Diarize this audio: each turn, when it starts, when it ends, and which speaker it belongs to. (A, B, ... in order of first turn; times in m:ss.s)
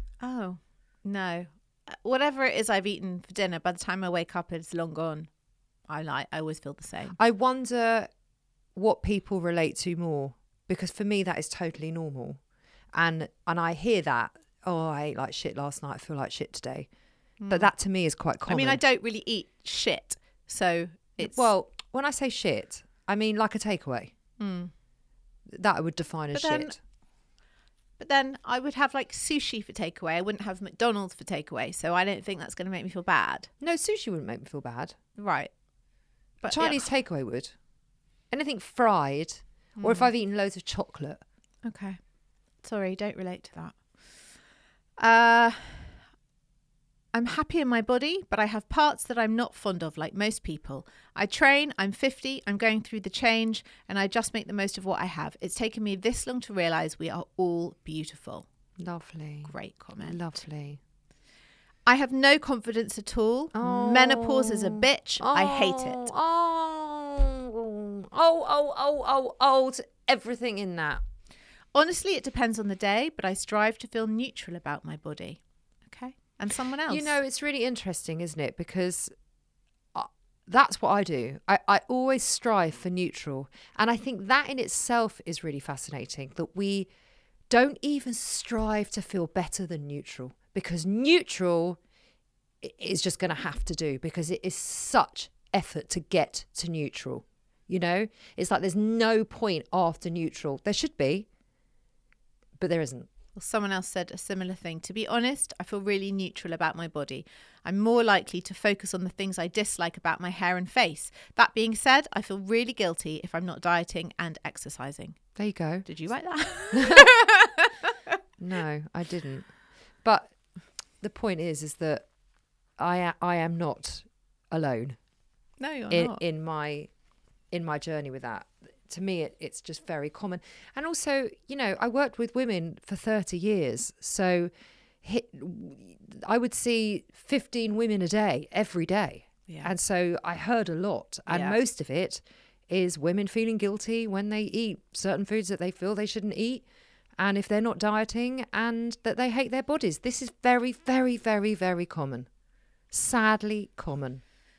0:00.2-0:05.3 A
0:05.9-0:07.2 A
0:07.2-0:08.1 B
0:08.8-0:12.4 B
0:12.9-0:16.9 B
0:17.4-0:17.7 A
0:17.5-0:18.8 B
0:18.5-0:21.5 A
0:21.2-0:24.1 B
0:24.4-0:24.7 A
0:25.5-0:26.8 B
0:26.3-0:26.8 A
0:28.0-0:33.5 A
0:33.6-0:35.0 B
0:35.2-0:35.5 A
0:36.4-0:36.9 A
0:36.5-0:37.5 B
0:38.3-0:41.2 B
0:39.8-0:40.1 A
0:41.6-0:42.0 A
0:42.6-0:43.8 A
0:45.0-0:46.0 A
0:47.1-0:58.5 A
0:58.8-1:00.8 B
0:59.5-1:00.2 A
1:01.9-1:06.1 A
1:03.5-1:11.0 B
1:11.7-1:17.2 A
1:16.9-1:19.1 B
1:19.9-1:26.9 B
1:27.5-1:31.8 B
1:32.6-1:41.3 B
1:42.6-1:43.1 B
1:43.4-1:55.2 A
1:55.4-1:55.9 B
1:55.8-1:57.9 A
1:56.7-1:57.2 B
1:58.4-1:59.5 B
2:00.0-2:00.4 B
2:01.0-2:02.0 B
2:02.8-2:05.0 B
2:05.6-2:06.2 A
2:05.9-2:06.9 B
2:07.5-2:14.5 B
2:15.0-2:26.6 B
2:19.5-2:19.7 A
2:21.3-2:21.6 A
2:27.2-2:32.3 B
2:32.9-2:34.2 B